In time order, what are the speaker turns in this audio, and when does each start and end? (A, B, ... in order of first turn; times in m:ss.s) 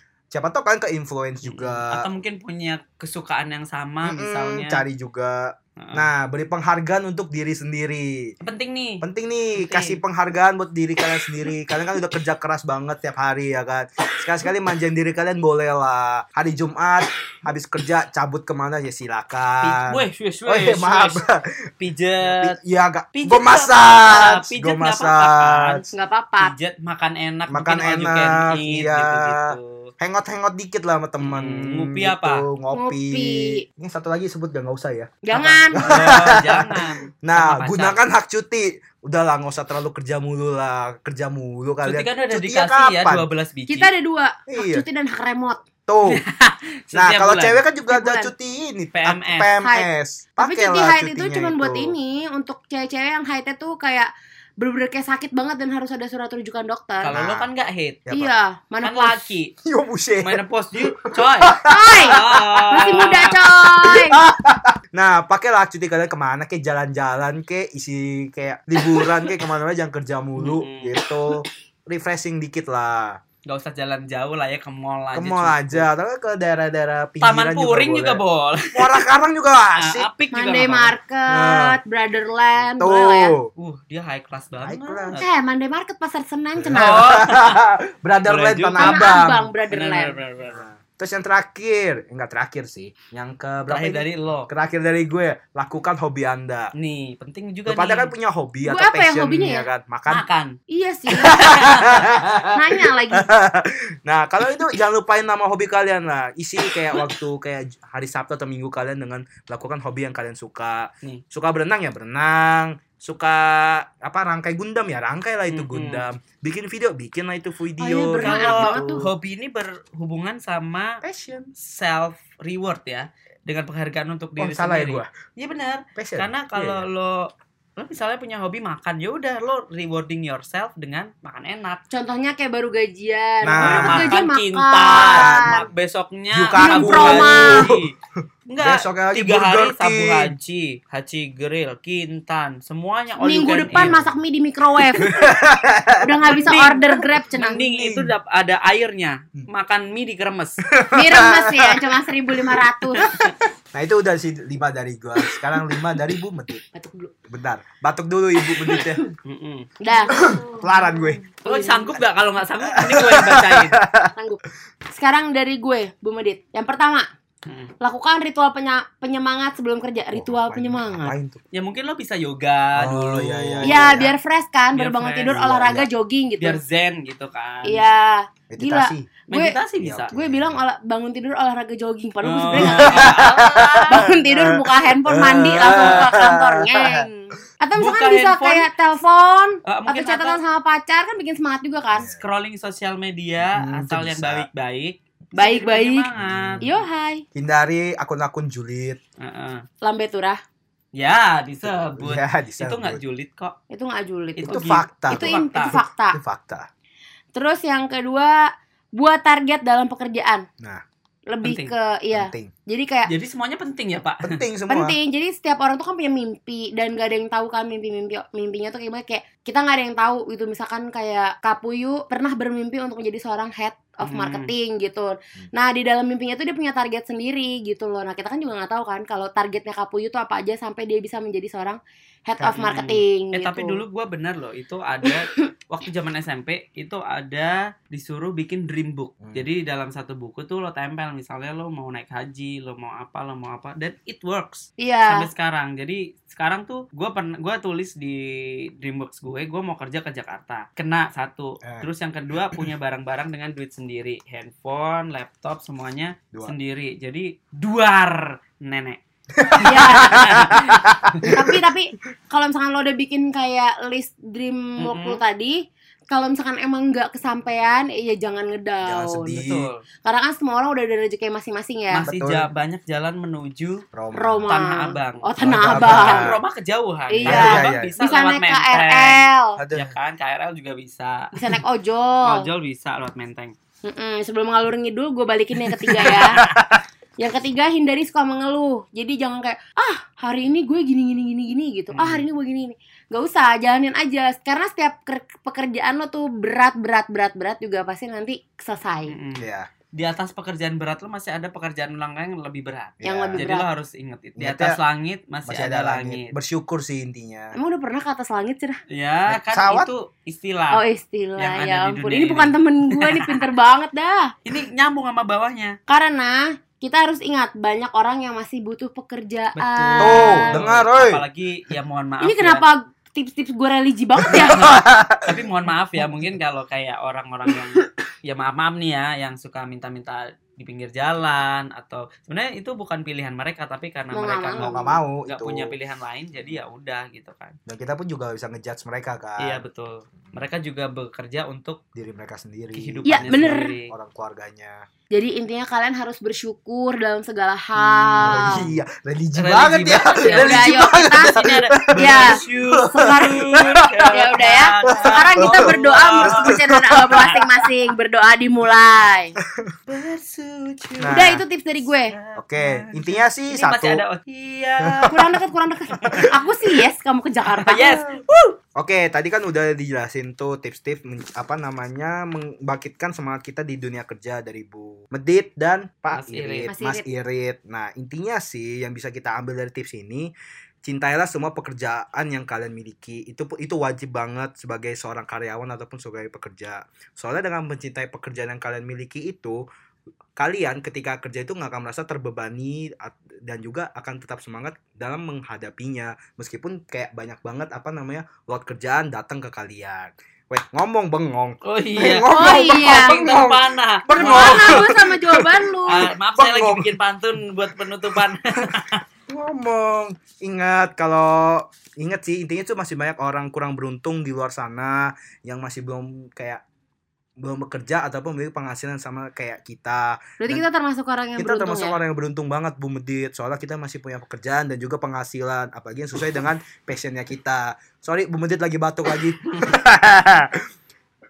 0:00.3-0:02.1 A
0:01.4-0:04.8 B
0:04.0-0:08.3 A
0:05.8-0:06.1 B
0:08.4-0:09.0 B
0:09.0-0:21.6 A
0:09.6-0:10.0 B
0:19.6-0:21.2 B
0:21.8-0:22.5 B
0:22.2-0:25.8 A
0:23.1-0:25.9 B
0:25.9-0:26.5 C
0:26.4-0:29.9 B
0:27.5-0:35.2 A
0:31.2-0:32.5 B
0:32.7-0:33.6 C
0:35.2-0:35.9 C
0:35.3-0:38.0 B
0:35.7-0:43.2 A
0:41.8-0:43.9 B
0:43.7-0:45.6 C
0:44.5-0:44.8 A
0:45.9-0:46.2 A
0:46.1-0:47.6 B
0:46.9-0:52.0 A
0:47.9-0:48.3 C
0:48.9-0:49.5 B
0:49.6-0:49.9 C
0:50.4-0:57.2 C
0:57.0-0:58.0 B
0:57.1-0:57.5 A
0:58.0-0:58.3 A
0:58.1-0:59.2 C
0:58.8-0:59.5 B
0:59.6-1:03.1 A
1:00.2-1:03.3 B
1:01.6-1:04.2 C
1:03.8-1:13.2 A
1:10.4-1:11.0 B
1:13.5-1:15.9 B
1:15.1-1:20.1 A
1:17.2-1:19.0 B
1:19.8-1:20.9 B
1:20.3-1:23.3 C
1:21.3-1:21.8 A
1:22.8-1:23.5 A
1:23.6-1:25.2 B
1:24.6-1:25.2 A
1:25.2-1:27.0 C
1:26.6-1:29.5 A
1:26.8-1:27.6 B
1:28.3-1:29.2 B
1:28.8-1:30.2 C
1:29.7-1:30.6 B
1:30.4-1:36.7 A
1:33.7-1:34.5 B
1:36.8-1:38.1 B
1:37.6-1:40.2 A
1:38.6-1:39.7 C
1:40.1-1:40.6 B
1:40.7-1:41.5 C
1:41.1-1:59.1 A
1:41.3-1:42.0 B
1:42.5-1:43.3 C
1:55.5-1:56.0 B
1:57.8-1:59.0 C
1:58.2-2:01.0 B
2:01.0-2:01.5 A
2:01.6-2:11.8 B
2:04.4-2:05.1 A
2:06.0-2:06.9 A
2:11.9-2:15.6 C
2:13.4-2:14.2 A
2:13.6-2:17.9 B
2:14.9-2:15.7 A
2:16.3-2:17.8 A
2:16.6-2:17.7 C
2:18.5-2:24.0 B
2:18.6-2:20.3 A
2:23.2-2:25.2 C
2:23.7-2:24.2 A
2:25.0-2:26.5 A
2:26.0-2:27.6 C
2:26.4-2:30.6 B
2:27.5-2:28.1 A
2:30.7-2:31.9 A
2:30.9-2:33.0 C
2:33.0-2:33.3 B
2:33.7-2:36.6 A
2:36.7-2:37.1 C
2:37.3-2:39.0 A
2:38.6-2:39.1 C
2:39.2-2:39.7 B
2:39.8-2:41.9 C
2:40.1-2:41.2 A
2:41.4-2:43.8 B
2:42.6-2:44.1 A
2:44.1-2:44.4 C
2:44.9-2:47.1 C
2:47.5-2:47.7 B
2:47.8-2:51.1 C
2:50.1-2:51.4 A
2:51.5-2:54.0 B
2:52.8-2:54.1 A
2:53.6-2:56.6 C
2:54.7-2:55.4 B
2:55.3-2:55.9 A
2:56.4-2:57.8 B
2:57.6-2:59.6 C
2:58.5-2:59.1 A
2:59.3-3:00.1 B
2:59.8-3:00.6 A
3:00.1-3:12.1 C
3:02.2-3:04.1 B
3:02.5-3:07.0 A
3:07.8-3:08.7 B
3:09.6-3:10.4 B
3:11.9-3:12.2 A
3:12.2-3:16.7 B
3:13.5-3:14.5 A
3:15.4-3:16.1 C
3:16.1-3:16.7 A
3:16.6-3:17.2 C
3:17.3-3:19.0 A
3:19.2-3:19.6 B
3:19.8-3:20.4 C
3:21.0-3:23.6 B
3:21.6-3:23.0 A
3:23.7-3:26.2 C
3:24.4-3:25.8 B
3:24.5-3:26.7 A
3:27.3-3:30.5 C
3:31.3-3:33.1 C
3:31.4-3:31.7 B
3:32.1-3:32.5 A
3:33.1-3:34.4 B
3:34.2-3:35.0 A
3:34.7-3:53.8 C
3:44.0-3:44.5 B
3:52.5-4:19.0 B
3:59.2-3:59.5 A
4:04.8-4:05.3 C
4:19.3-4:21.5 A
4:19.5-4:21.3 B
4:19.6-4:20.5 C
4:21.3-4:29.3 C
4:24.8-4:25.2 B
4:28.8-4:29.7 A
4:29.3-4:29.8 B
4:30.0-4:32.1 C
4:31.9-4:33.8 B
4:32.0-4:32.5 A
4:33.9-4:34.5 A
4:34.1-4:36.3 C
4:34.5-4:41.3 B
4:35.4-4:36.4 A
4:37.1-4:39.6 C
4:37.2-4:38.0 A
4:39.6-4:39.9 A
4:41.3-4:42.5 C
4:42.2-4:43.5 B
4:43.8-4:46.4 C
4:45.9-4:46.8 A
4:46.0-4:46.6 B
4:47.2-4:59.1 C
4:52.0-4:52.2 B
4:59.1-5:06.3 B
4:59.4-4:59.7 A
5:03.0-5:03.4 A
5:03.0-5:03.7 C
5:04.4-5:04.8 A
5:05.5-5:07.6 A
5:07.5-5:08.8 C
5:08.9-5:10.8 B
5:09.3-5:09.9 A
5:10.7-5:14.3 C
5:11.4-5:13.4 B
5:14.4-5:15.8 B
5:15.9-5:20.5 C
5:19.6-5:22.6 B
5:20.0-5:21.2 A
5:22.2-5:24.8 C
5:24.2-5:25.4 A
5:24.4-5:37.6 B
5:34.1-5:35.0 C
5:34.6-5:35.8 A
5:37.7-5:39.6 A
5:39.4-5:41.8 B
5:42.0-5:44.8 A
5:42.8-5:43.9 B
5:43.1-5:43.7 C
5:45.1-5:48.6 C
5:48.0-5:48.7 B
5:48.2-5:54.1 A
5:49.4-5:57.4 B
5:50.2-5:51.4 C
5:52.0-5:53.5 C
5:54.1-5:59.4 C
5:54.8-5:57.3 A
5:59.9-6:01.2 B
6:01.0-6:01.4 A
6:01.1-6:02.1 C
6:02.1-6:05.2 B
6:02.4-6:04.0 A
6:04.8-6:05.2 A
6:05.1-6:08.0 C
6:06.0-6:06.3 B
6:06.0-6:06.3 A
6:07.5-6:08.6 B
6:08.8-6:20.3 A
6:16.1-6:16.7 B
6:16.7-6:17.0 C
6:20.8-6:29.6 A
6:30.4-6:46.9 A
6:41.6-6:44.9 B
6:42.3-6:43.2 C
6:44.1-6:46.1 C
6:45.9-6:49.0 B
6:48.2-6:48.7 A
6:49.3-6:56.6 A
6:57.4-7:00.6 A
7:00.4-7:02.0 C
7:01.4-7:10.6 A